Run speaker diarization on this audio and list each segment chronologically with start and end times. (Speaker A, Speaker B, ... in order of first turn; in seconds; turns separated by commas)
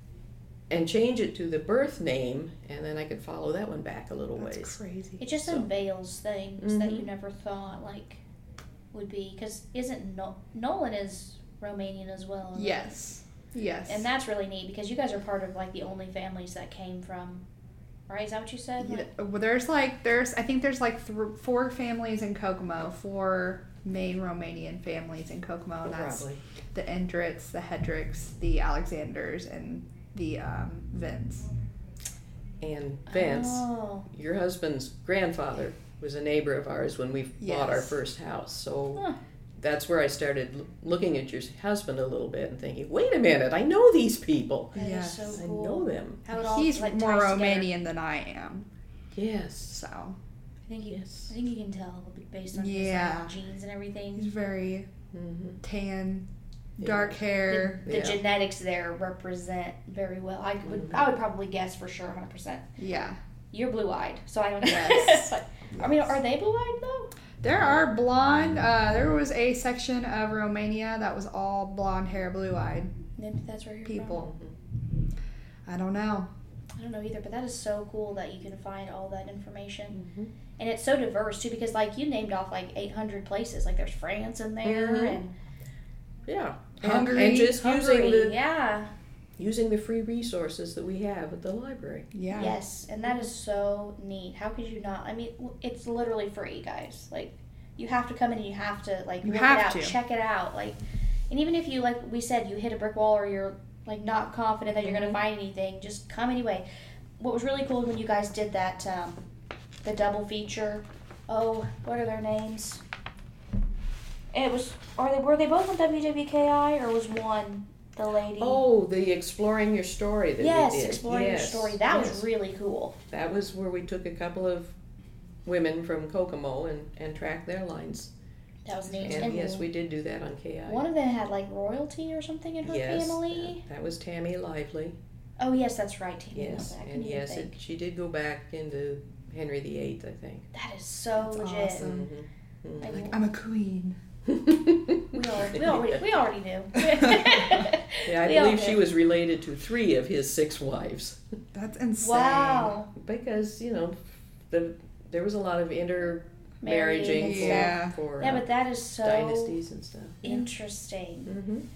Speaker A: 0.7-4.8, Speaker B: 4.4-5.2, Speaker C: 5.2-8.2, Speaker A: 6.6-7.1, Speaker C: 8.9-12.9, Speaker B: 12.5-14.0, Speaker C: 13.8-17.4, Speaker C: 18.1-19.1, Speaker B: 18.8-31.5, Speaker A: 25.8-26.4, Speaker A: 32.6-39.0, Speaker C: 33.1-34.1, Speaker B: 37.4-38.0, Speaker A: 39.6-44.8, Speaker C: 44.7-47.7, Speaker B: 44.8-45.4, Speaker A: 45.3-46.2, Speaker B: 46.3-48.7, Speaker A: 49.1-49.8, Speaker B: 49.7-50.2, Speaker C: 50.7-54.3, Speaker A: 50.9-51.3, Speaker B: 52.5-53.3, Speaker B: 54.2-54.9, Speaker A: 55.1-55.6, Speaker B: 55.6-56.2, Speaker B: 56.8-57.8, Speaker A: 56.8-57.2, Speaker C: 57.5-62.6, Speaker A: 57.8-58.2, Speaker A: 60.6-61.0, Speaker B: 62.8-63.2, Speaker C: 63.5-67.1, Speaker B: 64.6-66.1, Speaker B: 67.4-72.9, Speaker C: 73.2-74.2, Speaker B: 73.8-74.3, Speaker A: 74.2-74.6, Speaker B: 75.7-76.3, Speaker C: 76.8-80.0, Speaker A: 79.9-80.3, Speaker C: 80.6-85.3, Speaker A: 84.6-85.2, Speaker A: 86.3-88.3, Speaker B: 86.8-87.5, Speaker C: 87.0-88.9, Speaker A: 89.4-92.1, Speaker B: 92.1-92.5, Speaker C: 92.3-100.8, Speaker B: 99.2-99.9, Speaker C: 101.3-106.6, Speaker A: 104.8-105.2, Speaker C: 107.2-109.2, Speaker C: 109.8-112.8, Speaker C: 114.3-118.6, Speaker A: 118.4-122.3, Speaker C: 120.4-123.0, Speaker A: 123.1-124.8, Speaker A: 125.4-128.1, Speaker C: 128.7-129.6, Speaker A: 129.0-130.8, Speaker B: 129.0-129.3, Speaker C: 130.7-133.6, Speaker A: 132.6-135.0, Speaker C: 135.4-137.5, Speaker A: 136.3-140.5, Speaker C: 140.5-141.8, Speaker B: 141.2-142.1, Speaker A: 141.8-143.1, Speaker C: 142.8-143.2, Speaker B: 142.9-144.0, Speaker A: 144.2-146.0, Speaker C: 145.1-148.8, Speaker A: 148.1-151.2, Speaker B: 151.5-152.7, Speaker C: 152.0-152.9, Speaker A: 152.9-158.4, Speaker C: 156.6-159.6, Speaker B: 157.1-157.9, Speaker A: 159.0-160.4, Speaker C: 160.2-161.3, Speaker A: 161.3-161.7